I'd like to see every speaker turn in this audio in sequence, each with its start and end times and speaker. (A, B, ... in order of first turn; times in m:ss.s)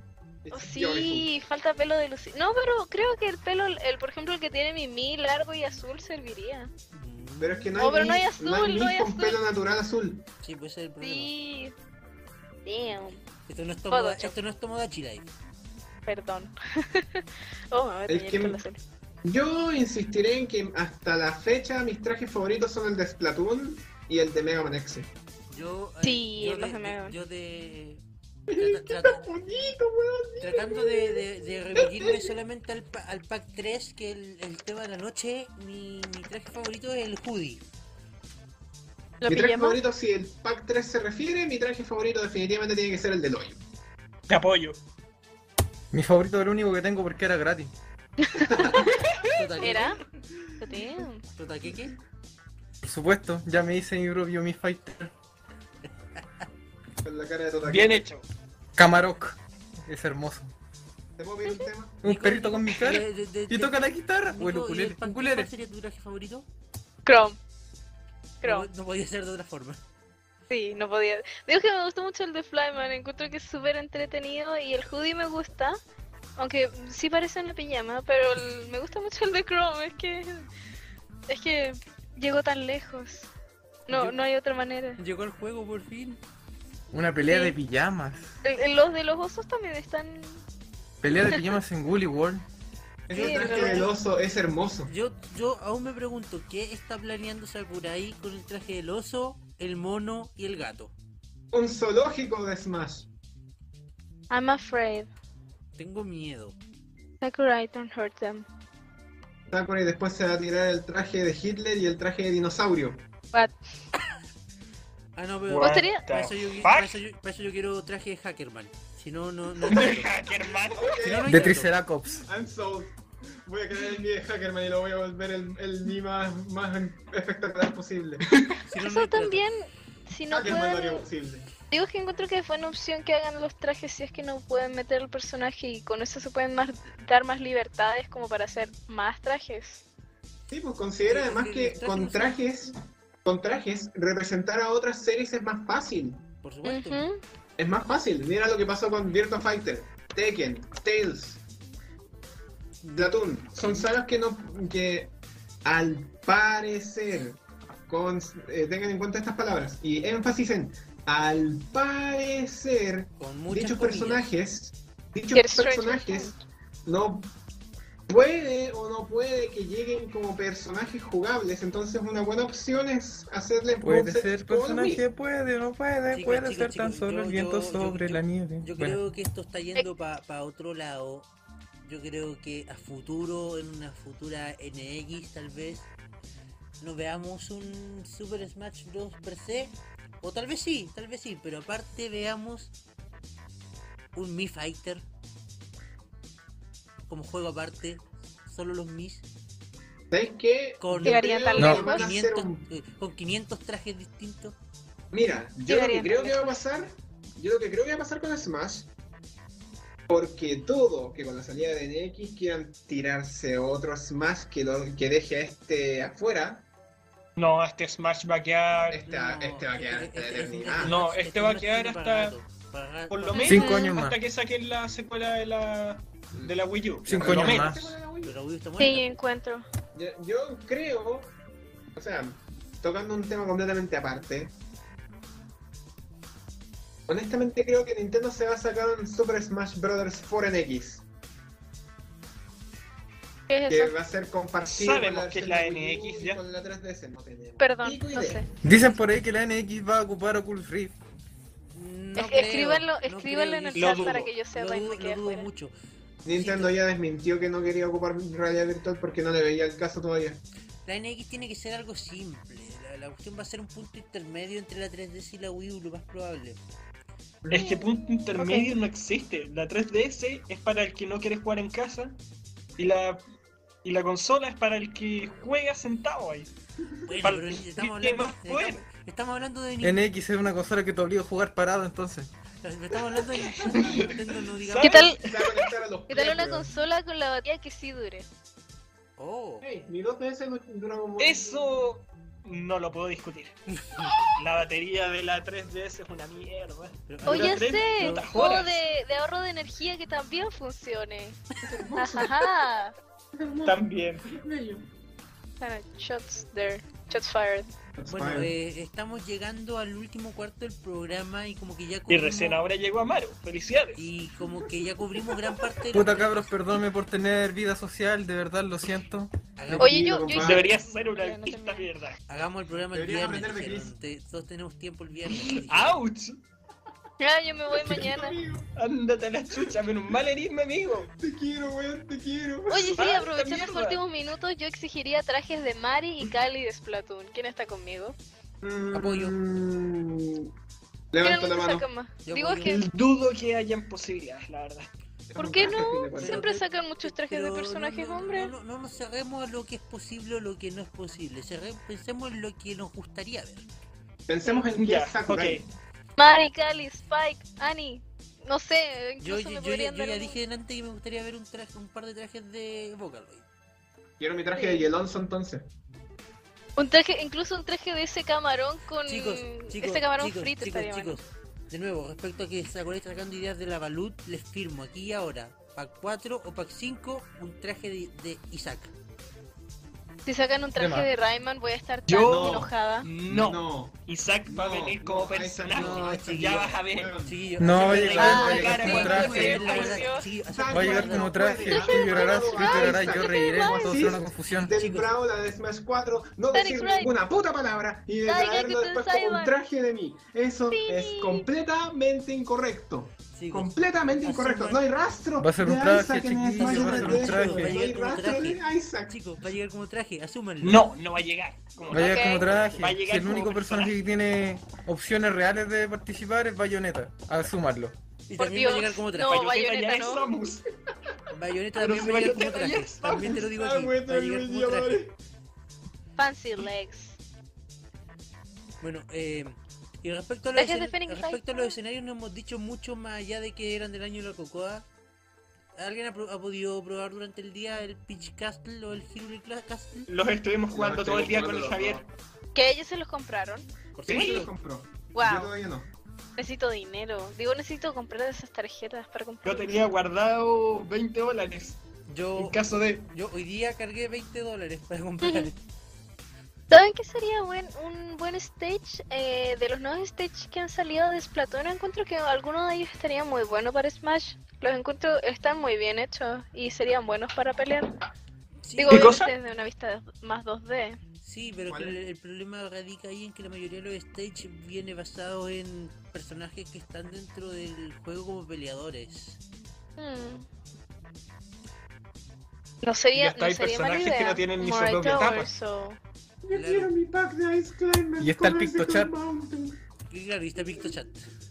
0:00.4-0:01.3 A
0:00.5-0:06.7 B
0:06.9-0:07.7 C
0:07.4-0:10.3 A
0:07.8-0:09.4 B
0:10.4-0:11.3 C
0:11.0-0:11.7 B
0:12.6-0:13.2 B
0:13.5-0:15.3 C
0:13.9-0:14.4 B
0:16.1-0:18.8 B
0:18.1-0:18.6 A
0:19.2-0:25.1 A
0:25.5-0:29.2 C
0:26.0-0:27.1 B
0:28.5-0:31.2 A
0:30.4-0:37.6 C
0:31.7-0:32.4 A
0:39.2-0:39.8 B
0:39.3-0:43.6 A
0:44.3-0:44.8 D
0:45.9-0:47.7 E
0:48.2-0:49.1 B
0:48.3-0:49.0 A
0:49.2-0:50.0 C
0:49.6-0:50.0 B
0:50.6-0:51.2 B
0:50.6-0:50.9 A
0:51.4-0:52.0 C
0:52.8-0:55.1 E
0:56.2-0:56.4 C
0:57.0-0:58.0 A
0:57.6-0:58.3 D
0:58.8-1:00.5 E
1:01.2-1:02.0 A
1:02.0-1:05.5 E
1:02.0-1:06.4 C
1:07.1-1:07.4 B
1:08.4-1:09.8 C
1:10.5-1:15.8 B
1:16.4-1:20.4 B
1:21.3-1:23.3 B
1:23.9-1:24.2 C
1:23.9-1:25.0 B
1:25.0-1:26.2 C
1:26.9-1:28.4 E
1:27.3-1:27.6 B
1:28.4-1:30.4 B
1:31.0-1:32.4 E
1:33.1-1:34.9 A
1:33.1-1:33.9 C
1:33.1-1:33.9 B
1:34.9-1:40.9 C
1:41.5-1:43.1 A
1:44.3-1:45.1 B
1:45.8-1:46.6 C
1:47.2-1:48.4 B
1:49.5-1:53.0 A
1:55.1-2:00.1 C
1:55.5-1:57.0 D
1:55.6-1:56.0 B
1:59.6-2:01.0 D
2:00.7-2:01.5 A
2:01.0-2:01.7 C
2:01.3-2:02.2 E
2:02.2-2:08.3 A
2:08.3-2:08.6 D
2:08.7-2:09.4 C
2:08.8-2:11.1 B
2:10.3-2:11.5 A
2:11.7-2:19.8 B
2:20.5-2:26.2 A
2:21.1-2:22.4 C
2:26.4-2:27.0 C
2:26.6-2:27.2 B
2:27.6-2:31.4 A
2:32.8-2:33.9 C
2:33.0-2:35.1 A
2:35.6-2:47.3 A
2:43.2-2:44.3 C
2:45.3-2:46.4 B
2:48.1-2:55.0 A
2:53.8-2:59.0 E
2:56.1-3:01.3 C
3:01.8-3:05.9 C
3:06.8-3:12.7 C
3:14.1-3:15.0 C
3:17.1-3:19.2 C
3:20.1-3:22.7 A
3:20.8-3:24.6 C
3:21.0-3:22.1 B
3:21.6-3:21.8 E
3:25.1-3:28.9 A
3:25.7-3:26.6 B
3:30.1-3:36.7 A
3:37.4-3:39.0 D
3:38.9-3:41.0 A
3:39.1-3:43.5 C
3:40.8-3:42.4 D
3:43.1-3:47.7 D
3:43.3-3:43.9 B
3:43.4-3:44.2 E
3:47.0-3:48.3 A
3:47.1-3:48.0 E
3:48.2-3:49.1 C
3:48.8-3:49.7 B
3:49.9-3:51.3 A
3:52.0-3:54.5 A
3:57.1-4:01.0 A
4:03.5-4:03.9 B
4:03.7-4:08.5 A
4:04.6-4:06.4 D
4:07.6-4:08.5 B
4:08.6-4:11.0 E
4:11.7-4:15.7 C
4:12.2-4:15.5 B
4:13.8-4:14.3 D
4:16.2-4:20.4 A
4:16.3-4:16.8 C
4:20.8-4:26.6 C
4:27.4-4:27.7 A
4:27.4-4:32.2 D
4:27.6-4:28.4 B
4:32.8-4:33.2 D
4:33.8-4:36.5 D
4:37.1-4:40.0 C
4:37.2-4:38.8 D
4:39.8-4:42.3 E
4:42.6-4:45.1 C
4:43.4-4:45.7 D
4:44.8-4:45.2 B
4:45.2-4:46.7 A
4:46.1-4:48.3 B
4:49.2-4:49.7 C
4:49.6-4:51.6 A
4:51.2-4:53.6 D
4:53.7-4:54.2 C
4:54.2-4:58.8 D
4:57.1-4:58.6 C
4:57.3-5:01.4 B
5:01.6-5:02.6 A
5:02.0-5:03.0 B
5:03.3-5:04.9 A
5:03.6-5:04.3 D
5:05.6-5:07.7 B
5:08.0-5:08.5 A
5:08.1-5:12.6 C
5:12.1-5:14.1 D
5:14.0-5:16.5 C
5:15.9-5:19.3 E
5:19.6-5:20.1 C
5:19.7-5:20.7 A
5:19.8-5:21.9 B
5:20.4-5:22.2 D
5:22.3-5:26.0 C
5:22.9-5:23.9 A
5:25.4-5:26.4 D
5:27.2-5:28.4 B
5:27.7-5:28.7 A
5:28.8-5:31.1 D
5:31.1-5:33.0 A
5:32.7-5:38.2 B
5:33.0-5:34.0 D
5:38.6-5:40.5 A
5:38.9-5:39.3 C
5:41.1-5:41.8 A
5:41.2-5:42.9 B
5:42.2-5:42.9 C
5:42.7-5:44.9 D
5:45.3-5:46.5 A
5:45.4-5:48.5 B
5:46.2-5:53.7 C
5:54.3-5:55.7 A
5:54.7-5:55.6 D
5:56.2-6:00.4 B
5:59.2-6:03.4 C
6:04.2-6:05.7 A
6:04.6-6:04.9 B
6:06.8-6:11.2 B
6:09.0-6:18.9 C
6:20.3-6:23.1 B
6:20.7-6:21.1 E
6:22.1-6:27.1 D
6:22.2-6:22.7 A
6:23.3-6:29.4 A
6:25.7-6:26.7 C
6:27.2-6:31.6 C
6:27.6-6:29.7 E
6:27.8-6:30.1 D
6:28.2-6:30.3 B
6:30.5-6:49.2 A
6:30.7-6:34.7 E
6:31.5-6:34.1 B
6:34.7-6:35.1 C
6:36.5-6:37.1 B
6:38.2-6:39.5 B
6:40.7-6:41.4 B
6:43.3-6:44.8 C
6:45.4-6:47.8 E
6:46.6-6:50.9 C
6:50.6-6:54.0 D
6:51.9-6:58.0 E
6:51.9-6:52.5 B
6:58.3-6:59.5 C
6:58.4-7:00.3 B
6:59.3-7:00.7 D
7:01.3-7:05.0 C
7:01.8-7:03.4 D
7:03.2-7:05.1 A
7:06.2-7:07.2 B
7:08.8-7:14.9 C
7:10.6-7:11.7 B
7:15.8-7:20.1 C
7:20.1-7:22.0 D
7:20.7-7:22.1 A
7:22.6-7:23.7 B
7:24.0-7:24.5 C
7:24.1-7:25.9 A
7:24.1-7:24.4 D
7:25.1-7:25.5 B
7:26.4-7:29.8 B
7:29.4-7:31.8 D
7:32.1-7:35.6 C
7:32.4-7:33.1 D
7:35.2-7:35.5 B
7:36.7-7:48.0 B
7:48.6-7:49.1 C
7:48.8-7:51.0 B
7:48.9-7:49.3 D
7:51.2-7:59.4 C
7:51.7-7:52.0 A
8:00.0-8:00.4 B
8:02.8-8:06.0 B
8:03.1-8:05.5 D
8:06.4-8:09.8 A
8:06.6-8:06.9 C
8:08.2-8:09.1 E
8:10.1-8:11.3 C